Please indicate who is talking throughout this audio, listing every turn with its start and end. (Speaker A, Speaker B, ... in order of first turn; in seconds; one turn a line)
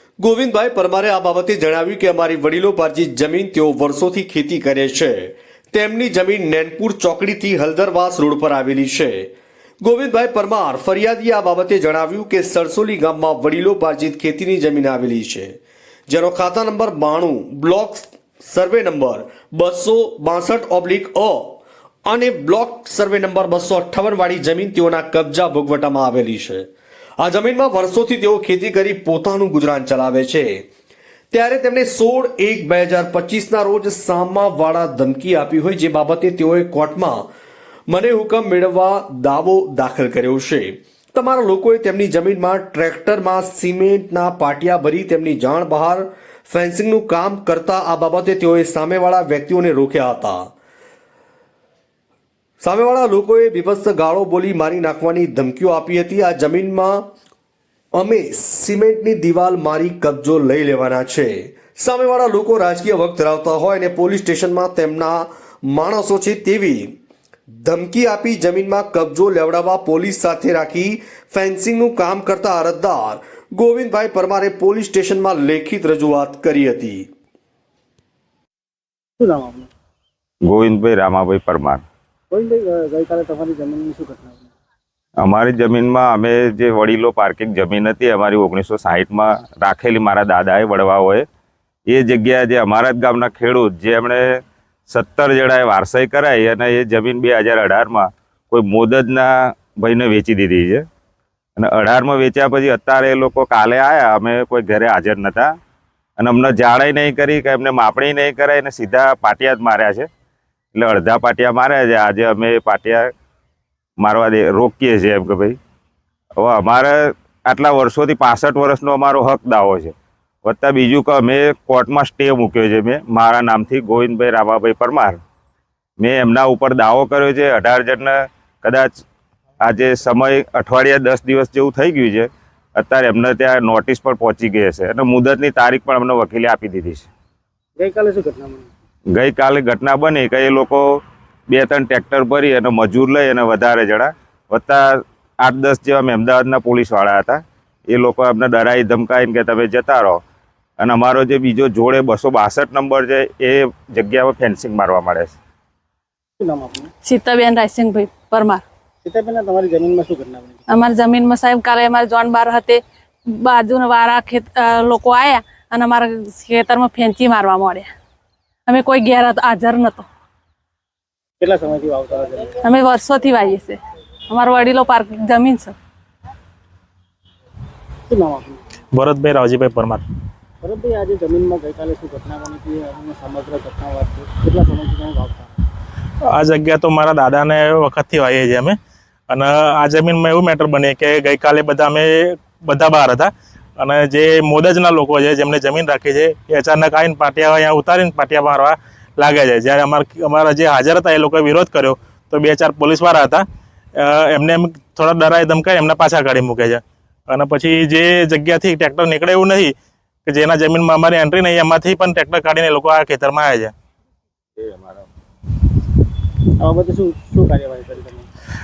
Speaker A: 0.2-9.3
Speaker A: 9.8-15.5
Speaker A: 16.1-26.7
Speaker A: 27.2-30.6
Speaker A: 31.3-37.2
Speaker A: 37.9-50.5
Speaker A: 52.6-57.0
Speaker A: 58.0-66.9
Speaker A: 67.6-77.1
Speaker B: 79.2-79.7
Speaker C: 80.5-81.8
Speaker B: 82.3-84.5
Speaker C: 85.2-91.2
Speaker C: 91.9-100.8
Speaker C: 101.6-105.5
Speaker C: 106.2-110.1
Speaker C: 110.7-113.1
Speaker C: 114.0-115.5
Speaker C: 116.4-119.9
Speaker C: 120.4-125.2
Speaker C: 126.0-129.0
Speaker C: 129.6-137.1
Speaker B: 137.8-138.7
Speaker C: 139.1-141.0
Speaker C: 141.5-150.2
Speaker C: 150.8-155.4
Speaker B: 156.4-156.9
Speaker D: 157.0-158.6
Speaker B: 159.0-160.6
Speaker D: 160.7-162.8
Speaker D: 163.3-167.9
Speaker D: 168.7-170.0
Speaker B: 171.4-172.6
Speaker D: 172.6-175.7
Speaker B: 178.1-178.6
Speaker E: 178.9-180.0
Speaker B: 180.6-185.5
Speaker E: 186.3-188.8
Speaker E: 189.3-203.4
Speaker E: 203.9-209.7
Speaker E: 210.2-213.7
Speaker C: 214.6-215.1
Speaker B: 216.6-218.2